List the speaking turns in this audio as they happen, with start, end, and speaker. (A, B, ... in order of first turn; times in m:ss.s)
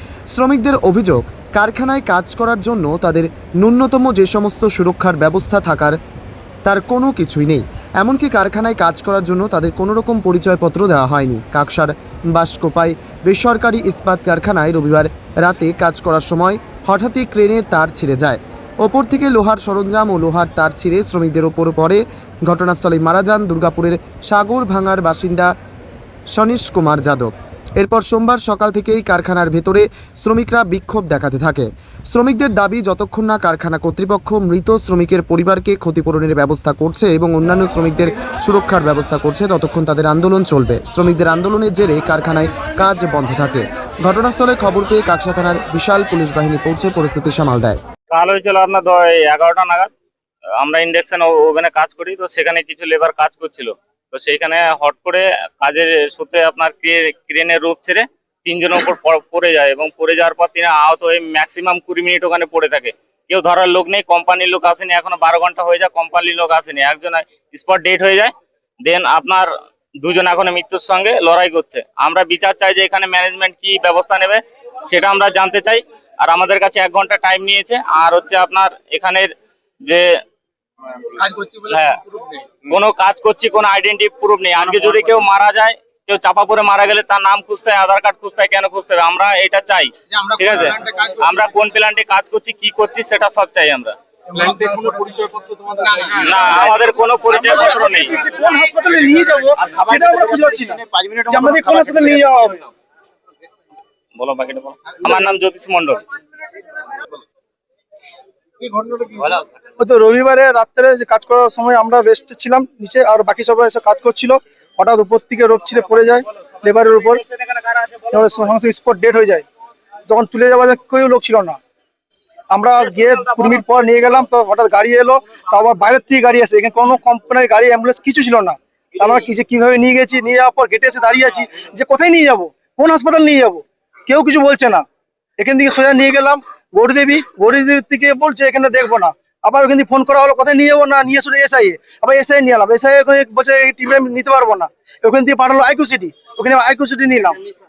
0:00.3-0:06.0 A
0:06.6-0:25.5 A
0:26.3-0:47.8 A
0:48.1-0:49.9 B
0:50.6-1:09.5 B
1:10.0-1:19.3 B
1:21.5-1:22.0 B
1:22.7-1:33.9 B
1:34.4-1:36.0 C
1:36.2-1:38.2 B
1:37.5-1:42.6 D
1:40.8-1:41.4 C
1:44.2-1:46.0 B
1:49.8-1:57.2 D
1:58.1-1:59.4 D
2:00.1-2:01.6 D
2:02.5-2:14.8 D
2:15.4-2:27.4 D